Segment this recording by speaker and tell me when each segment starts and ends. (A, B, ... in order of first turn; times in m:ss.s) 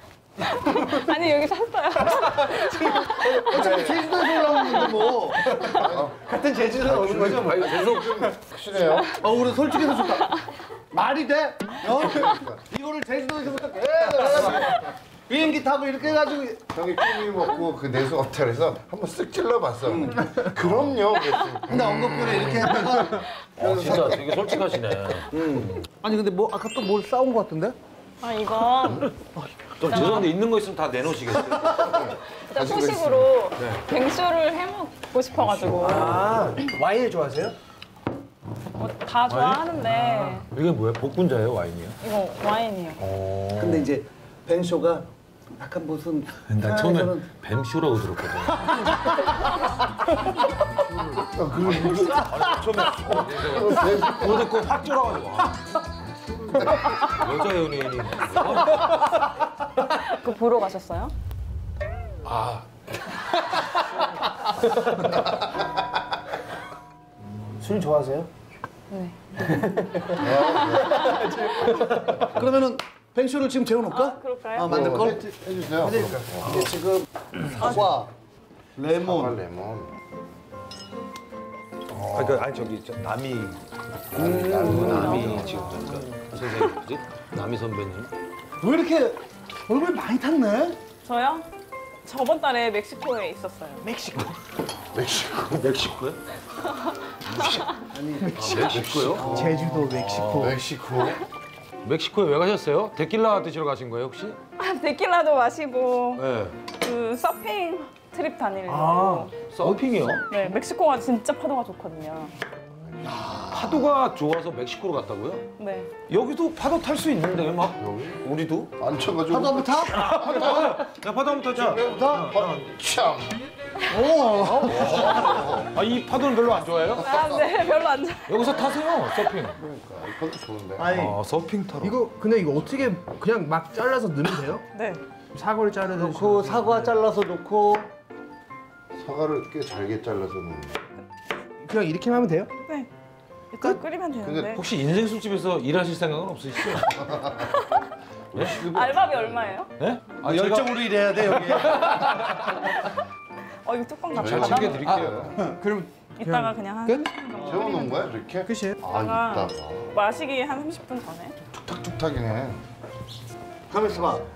0:00.4-0:05.8 A
0:03.1-0:05.5 B
0:03.5-0:04.0 C
0:05.5-0:07.7 C
0:05.6-0:09.2 D
0:07.4-0:08.2 E
0:09.2-0:17.2 B
0:12.0-0:12.6 D
0:16.7-0:22.8 D
0:19.9-0:20.3 B
0:20.6-0:20.9 E
0:21.6-0:24.5 B
0:23.6-0:25.8 E
0:25.3-0:27.8 B
0:28.2-0:29.1 A
0:29.8-0:32.0 E
0:29.8-0:30.3 A
0:31.6-0:33.3 D
0:31.9-0:36.4 A
0:35.4-0:35.8 D
0:35.6-0:37.5 B
0:35.8-0:37.4 C
0:38.8-0:40.4 A
0:39.3-0:42.0 E
0:40.0-0:40.4 C
0:42.0-0:43.0 A
0:43.0-0:43.9 E
0:43.6-0:47.3 B
0:46.5-0:49.0 E
0:48.7-0:49.3 B
0:50.5-0:54.5 D
0:51.6-0:55.6 E
0:56.3-0:57.0 D
0:57.0-0:58.9 E
0:59.8-1:01.1 A
1:02.2-1:02.7 E
1:07.6-1:08.3 B
1:08.9-1:09.5 A
1:09.5-1:10.2 C
1:10.1-1:11.2 D
1:11.0-1:18.1 B
1:11.1-1:12.1 C
1:13.9-1:14.7 A
1:14.6-1:16.7 D
1:17.6-1:17.9 A
1:18.8-1:19.4 B
1:18.9-1:19.9 D
1:21.9-1:22.6 D
1:22.1-1:23.6 E
1:24.1-1:25.6 D
1:24.2-1:26.0 B
1:24.2-1:28.1 E
1:24.7-1:26.0 A
1:28.6-1:30.8 B
1:31.0-1:31.5 A
1:32.0-1:33.8 A
1:33.8-1:34.4 C
1:34.9-1:35.8 D
1:35.5-1:36.2 E
1:36.6-1:37.6 A
1:37.3-1:37.6 E
1:37.9-1:39.8 B
1:38.2-1:38.6 C
1:38.3-1:40.6 E
1:38.6-1:39.8 D
1:39.2-1:40.5 C
1:40.3-1:41.2 D
1:41.8-1:44.4 E
1:44.6-1:49.3 A
1:46.2-1:46.6 E
1:48.7-1:49.3 C
1:49.5-1:50.2 E
1:50.3-1:52.3 A
1:53.0-1:53.9 B
1:53.4-1:55.4 E
1:55.6-1:55.9 A
1:56.1-1:58.7 E
1:57.8-1:58.2 D
1:58.8-2:00.8 D
1:59.3-2:00.2 B
1:59.9-2:02.5 E
2:01.5-2:02.3 B
2:02.1-2:03.4 D
2:03.9-2:05.4 B
2:04.2-2:04.8 C
2:04.6-2:07.1 E
2:04.8-2:05.7 D
2:07.0-2:08.6 A
2:07.1-2:07.5 D
2:08.3-2:09.6 E
2:09.6-2:11.0 D
2:10.8-2:11.2 B
2:10.9-2:12.0 E
2:11.8-2:14.6 C
2:14.7-2:15.0 A
2:15.3-2:17.0 C
2:15.9-2:17.9 B
2:18.9-2:20.8 D
2:21.6-2:22.5 C
2:22.6-2:22.9 A
2:23.5-2:24.6 A
2:24.2-2:24.6 D
2:24.5-2:27.0 E
2:26.8-2:27.5 D
2:27.3-2:27.9 A
2:28.3-2:29.5 D
2:28.3-2:28.6 E
2:28.5-2:29.7 A
2:29.8-2:32.2 E
2:30.2-2:32.1 B
2:32.2-2:33.0 A
2:33.6-2:35.0 A
2:34.1-2:35.4 E
2:34.1-2:35.4 D
2:35.3-2:37.1 C
2:36.2-2:38.1 A
2:37.3-2:39.9 D
2:37.4-2:37.6 B
2:38.4-2:38.8 C
2:38.8-2:41.3 A
2:41.5-2:42.6 D
2:43.7-2:44.3 B